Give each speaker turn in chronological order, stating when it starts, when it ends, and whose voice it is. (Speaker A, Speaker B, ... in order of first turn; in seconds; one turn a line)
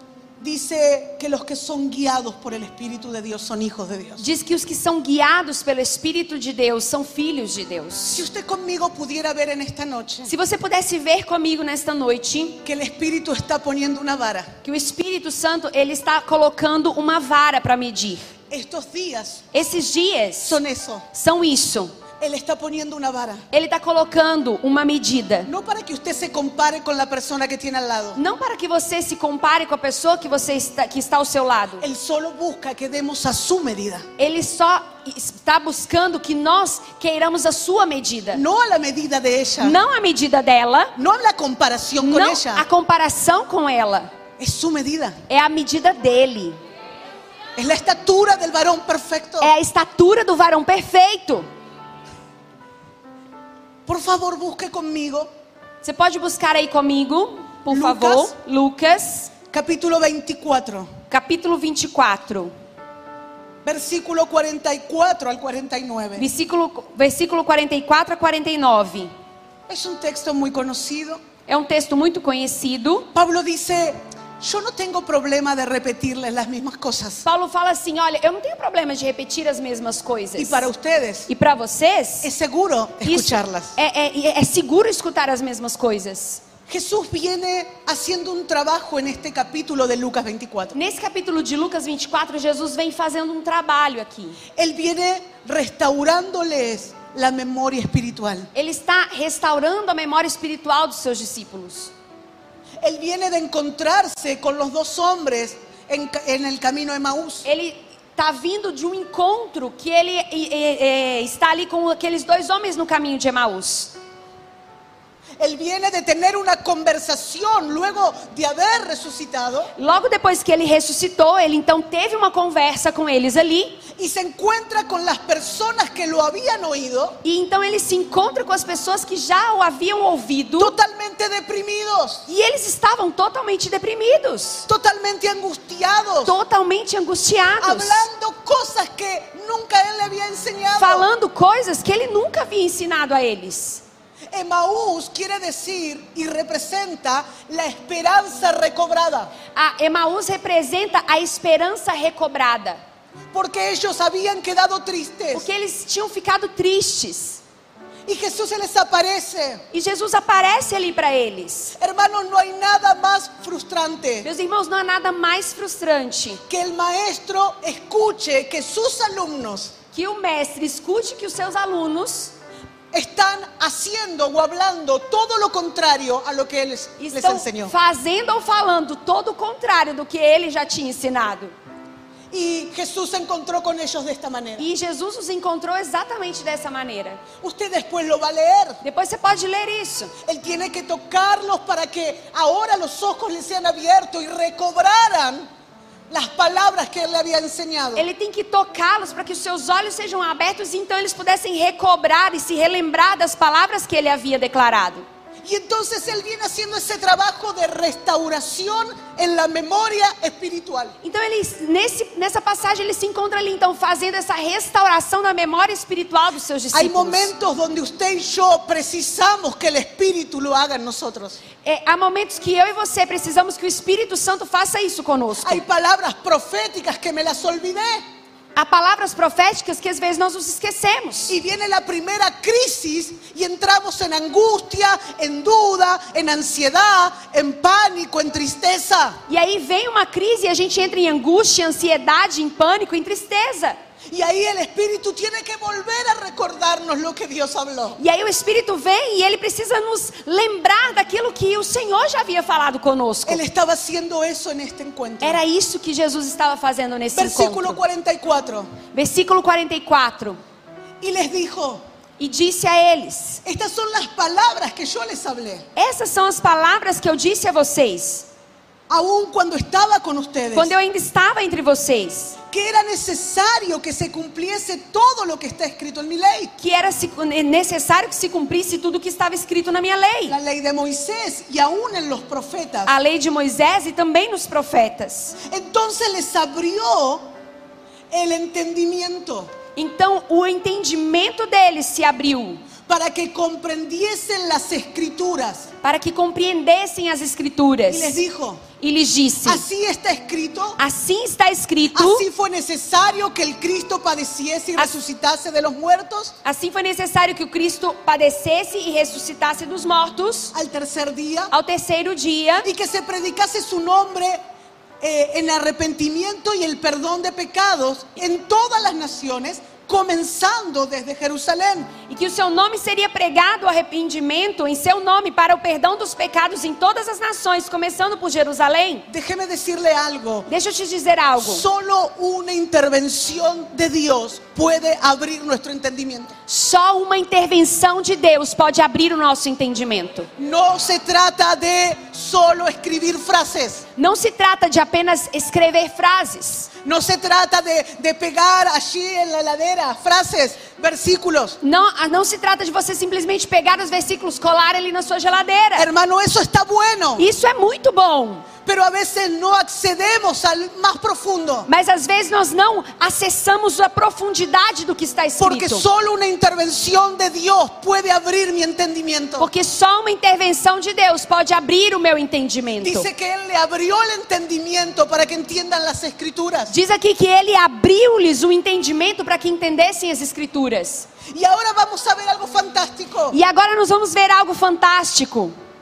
Speaker A: 0.4-4.2
Speaker B: 4.2-8.2
Speaker A: 8.1-10.3
Speaker B: 10.2-12.6
Speaker A: 12.6-14.5
Speaker B: 14.6-18.2
Speaker A: 18.5-19.5
Speaker B: 19.5-20.6
Speaker A: 20.4-21.1
Speaker B: 21.1-21.9
Speaker A: 22.2-23.4
Speaker B: 23.5-25.5
Speaker A: 25.4-28.2
Speaker B: 28.1-31.9
Speaker A: 31.8-34.1
Speaker B: 34.2-38.4
Speaker A: 38.3-39.8
Speaker B: 39.6-40.9
Speaker A: 41.0-42.6
Speaker B: 42.0-44.1
Speaker A: 44.4-45.2
Speaker B: 45.3-46.6
Speaker A: 47.5-49.5
Speaker B: 49.4-51.5
Speaker A: 53.9-55.3
Speaker B: 55.8-59.3
Speaker A: 57.7-58.3
Speaker A: 59.5-60.9
Speaker B: 61.1-62.5
Speaker A: 63.6-66.3
Speaker B: 66.2-69.1
Speaker A: 69.7-71.2
Speaker B: 71.5-73.1
Speaker A: 73.1-77.2
Speaker B: 77.2-80.7
Speaker A: 80.4-81.3
Speaker B: 81.3-82.3
Speaker A: 82.2-83.8
Speaker B: 83.0-86.4
Speaker A: 86.7-90.8
Speaker B: 90.7-94.4
Speaker A: 94.5-98.5
Speaker B: 98.5-101.9
Speaker A: 102.8-107.5
Speaker B: 107.4-113.9
Speaker A: 115.4-119.7
Speaker B: 119.8-123.8
Speaker A: 124.0-127.2
Speaker B: 127.2-130.7
Speaker A: 130.6-132.2
Speaker B: 132.3-134.7
Speaker A: 134.7-136.3
Speaker B: 136.2-138.1
Speaker A: 137.6-141.1
Speaker B: 140.8-143.8
Speaker A: 144.3-149.3
Speaker B: 149.5-152.8
Speaker A: 153.3-155.4
Speaker B: 155.3-157.4
Speaker A: 158.1-159.6
Speaker B: 159.7-161.8
Speaker A: 161.8-164.3
Speaker B: 164.2-166.4
Speaker A: 166.5-169.7
Speaker B: 169.9-172.3
Speaker A: 172.9-177.7
Speaker B: 177.0-181.5
Speaker A: 182.3-184.7
Speaker B: 184.6-187.2
Speaker A: 187.4-188.8
Speaker B: 188.8-190.1
Speaker A: 190.2-195.5
Speaker A: 196.1-198.1
Speaker B: 197.9-205.0
Speaker A: 205.4-210.9
Speaker B: 211.0-217.3
Speaker A: 216.7-221.4
Speaker B: 221.6-225.6
Speaker A: 225.4-228.0
Speaker B: 228.5-231.3
Speaker A: 231.3-239.2
Speaker B: 239.3-243.8
Speaker A: 244.1-248.0
Speaker B: 248.0-253.4
Speaker A: 253.2-255.4
Speaker B: 255.2-257.8
Speaker A: 257.1-258.7
Speaker B: 258.9-260.4
Speaker A: 261.0-261.8
Speaker B: 262.2-263.4
Speaker A: 263.4-265.6
Speaker B: 265.8-268.3
Speaker A: 268.9-270.7
Speaker B: 270.5-272.4
Speaker A: 272.5-276.5
Speaker B: 276.6-280.4
Speaker A: 280.3-282.9
Speaker B: 282.9-285.4
Speaker A: 285.4-287.3
Speaker A: 288.1-289.5
Speaker B: 289.8-292.6
Speaker A: 292.9-295.7
Speaker B: 295.8-298.2
Speaker A: 297.9-298.6
Speaker B: 298.8-299.6
Speaker A: 299.4-300.8
Speaker B: 300.8-302.3
Speaker A: 301.9-306.4
Speaker B: 306.4-310.5
Speaker A: 310.5-311.5
Speaker B: 311.5-312.7
Speaker A: 312.6-314.4
Speaker A: 315.0-321.9
Speaker B: 322.1-329.1
Speaker A: 329.1-330.5
Speaker B: 330.5-331.6
Speaker A: 331.4-336.4
Speaker B: 336.5-340.3
Speaker A: 340.4-343.9
Speaker B: 344.0-346.7
Speaker A: 346.8-351.6
Speaker B: 351.6-355.9
Speaker A: 355.8-357.2
Speaker B: 357.2-358.4
Speaker A: 358.6-361.7
Speaker B: 361.7-365.9
Speaker A: 365.4-369.5
Speaker B: 369.4-373.1
Speaker A: 372.8-376.7
Speaker B: 376.7-381.1
Speaker A: 381.3-383.4
Speaker B: 383.3-385.5